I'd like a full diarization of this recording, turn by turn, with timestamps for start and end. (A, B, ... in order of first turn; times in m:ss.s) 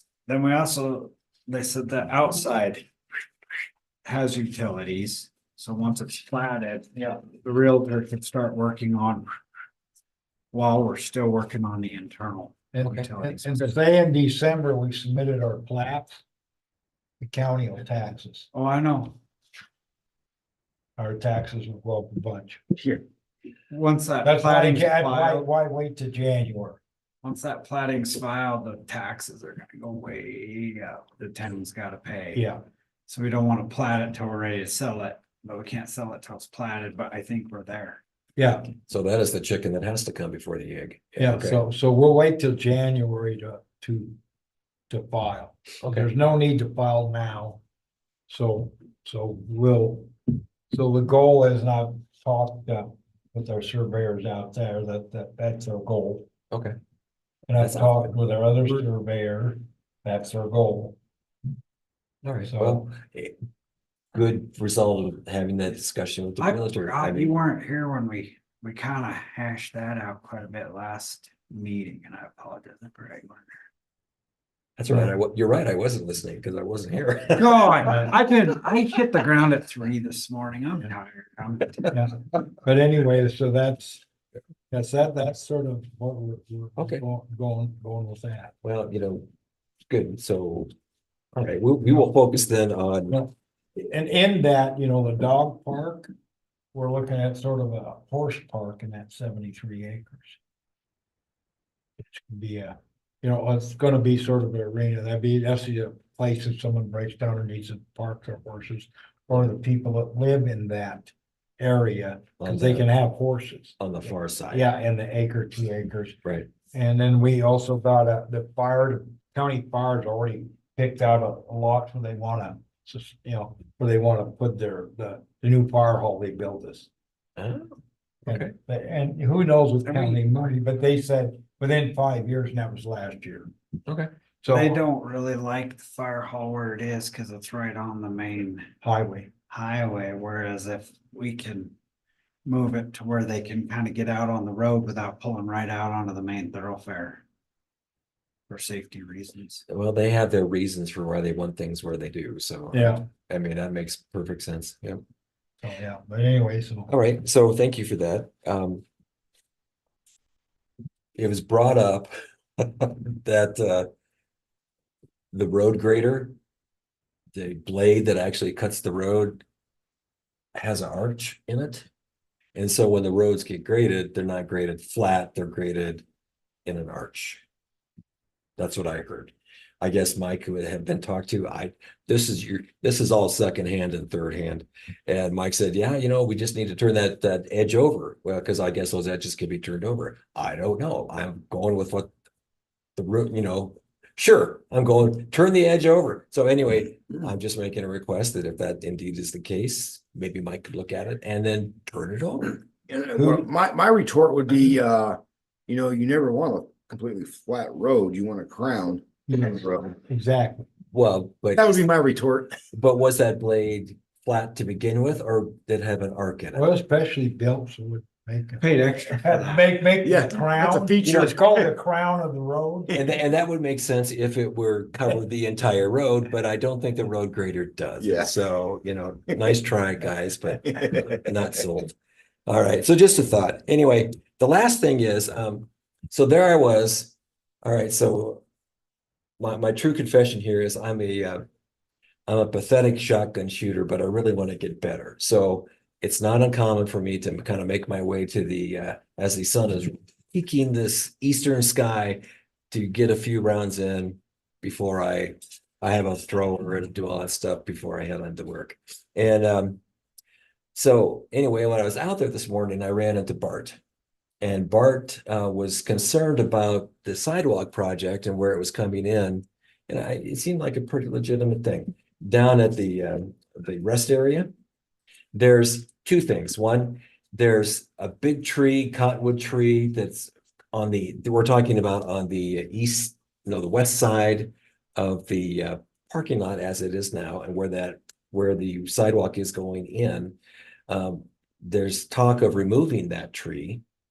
0:00.3-0:02.9 A
0:04.0-0:09.3 A
0:10.5-0:13.7 A
0:12.7-0:16.2 B
0:17.2-0:18.5 B
0:18.5-0:19.2 A
0:21.0-0:22.6 B
0:22.7-0:23.0 C
0:23.7-0:25.5 A
0:24.2-0:26.8 B
0:27.2-0:32.4 A
0:32.3-0:32.6 B
0:33.1-0:38.0 A
0:38.4-0:38.7 B
0:38.9-0:41.6 D
0:41.2-0:44.2 B
0:44.9-0:47.6 B
0:45.8-0:46.1 D
0:48.3-0:50.1 B
0:50.7-0:56.3 B
0:57.5-1:01.0 B
0:57.6-0:58.1 D
1:02.2-1:03.3 D
1:02.4-1:02.9 B
1:04.1-1:07.3 D
1:06.4-1:13.5 A
1:14.8-1:17.9 D
1:17.4-1:22.0 A
1:21.9-1:24.0 B
1:24.7-1:28.5 B
1:26.8-1:27.0 D
1:28.6-1:29.3 D
1:29.9-1:30.7 D
1:31.3-1:33.2 D
1:33.1-1:36.1 B
1:36.7-1:40.4 B
1:42.0-1:53.8 B
1:52.4-1:52.9 D
1:53.8-1:54.7 D
1:54.5-1:56.2 B
1:56.2-1:56.5 D
1:56.7-2:06.9 B
2:07.4-2:08.5 D
2:08.3-2:13.5 B
2:09.8-2:10.2 A
2:14.4-2:14.8 B
2:14.5-2:18.7 A
2:18.8-2:19.3 B
2:19.5-2:21.7 A
2:22.4-2:27.2 A
2:28.5-2:29.6 A
2:29.7-2:35.0 D
2:32.7-2:33.1 B
2:35.6-2:36.9 B
2:36.9-2:38.8 D
2:41.2-2:43.9 D
2:45.3-2:46.3 D
2:47.3-2:49.4 D
2:50.5-2:51.9 D
2:52.5-2:56.0 D
2:56.6-2:57.4 D
2:58.6-3:12.1 D
3:13.0-3:22.6 D
3:22.9-3:30.0 C
3:23.2-3:23.5 B
3:29.3-3:30.7 B
3:30.9-3:31.8 D
3:31.6-3:32.6 C
3:32.7-3:36.6 D
3:36.5-3:38.6 B
3:38.6-3:39.6 A
3:39.2-3:42.9 B
3:40.0-3:41.7 C
3:42.9-3:51.9 D
3:48.0-3:48.3 C
3:50.7-3:51.2 C
3:52.5-3:58.4 D
3:59.4-4:01.4 D
4:02.3-4:19.8 D
4:20.7-4:23.8 D
4:24.4-4:34.5 D
4:35.3-4:50.4 D
4:50.9-4:53.8 D